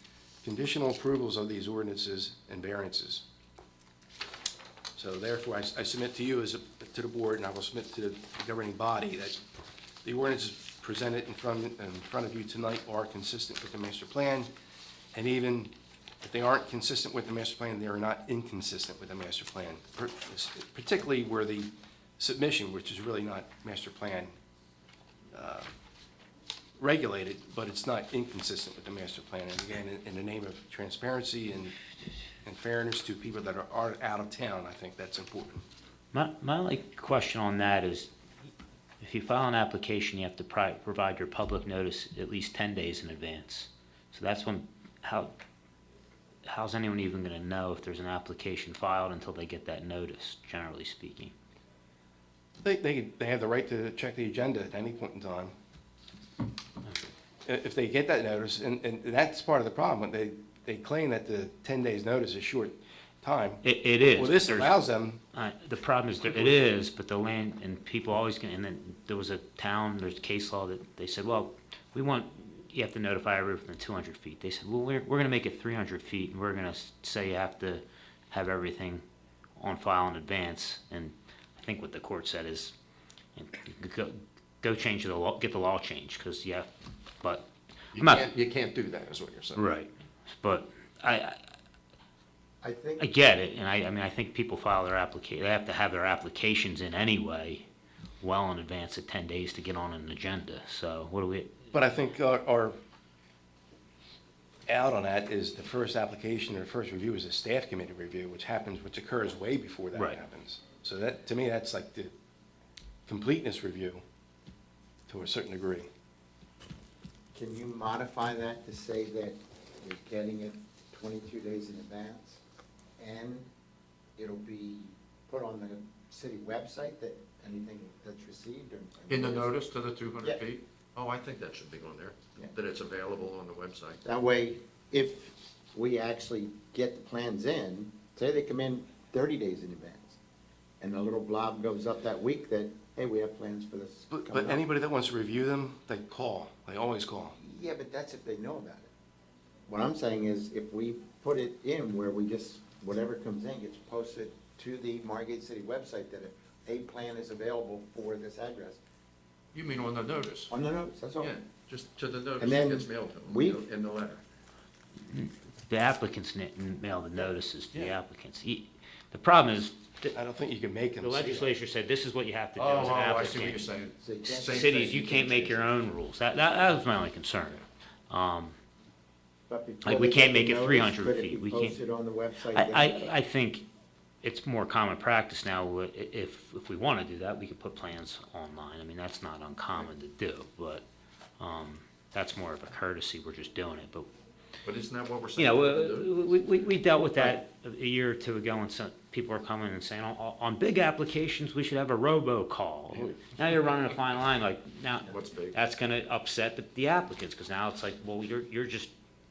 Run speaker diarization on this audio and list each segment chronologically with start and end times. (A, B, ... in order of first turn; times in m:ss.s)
0:00.4-0:03.2 A
0:05.0-0:09.4 A
0:10.0-0:14.5 A
0:15.1-0:24.3 A
0:25.3-0:25.7 A
0:26.8-0:31.8 A
0:32.4-0:35.6 A
0:36.1-0:38.1 B
0:39.0-0:45.3 B
0:46.5-0:51.3 B
0:52.6-0:55.5 A
0:57.4-1:05.2 A
1:03.6-1:04.8 B
1:05.3-1:19.0 B
1:19.6-1:22.7 B
1:23.4-1:26.7 B
1:27.2-1:28.3 B
1:28.0-1:29.6 C
1:29.6-1:31.4 B
1:32.6-1:33.1 D
1:33.0-1:37.7 B
1:38.2-1:41.6 B
1:41.7-1:42.8 A
1:44.7-1:52.1 A
1:49.9-1:50.2 B
1:53.1-1:54.0 A
1:55.1-1:55.9 A
1:57.3-2:02.4 D
2:03.0-2:03.5 D
2:04.2-2:09.6 D
2:09.1-2:14.0 C
2:14.0-2:20.2 D
2:20.8-2:24.6 D
2:24.1-2:27.4 A
2:27.4-2:28.9 D
2:29.7-2:38.8 D
2:39.5-2:40.5 C
2:40.5-2:41.4 D
2:41.2-2:44.2 C
2:42.4-2:43.6 D
2:45.1-2:50.2 B
2:50.1-2:51.5 A
2:51.0-2:53.6 B
2:52.6-2:54.9 C
2:54.0-2:55.6 D
2:54.4-2:58.6 B
2:59.5-3:03.1 D
2:59.8-3:01.8 B
3:02.5-3:03.7 B
3:04.2-3:10.8 B
3:11.4-3:14.1 B
3:14.6-3:16.2 C
3:15.4-3:28.9 B
3:25.0-3:25.6 C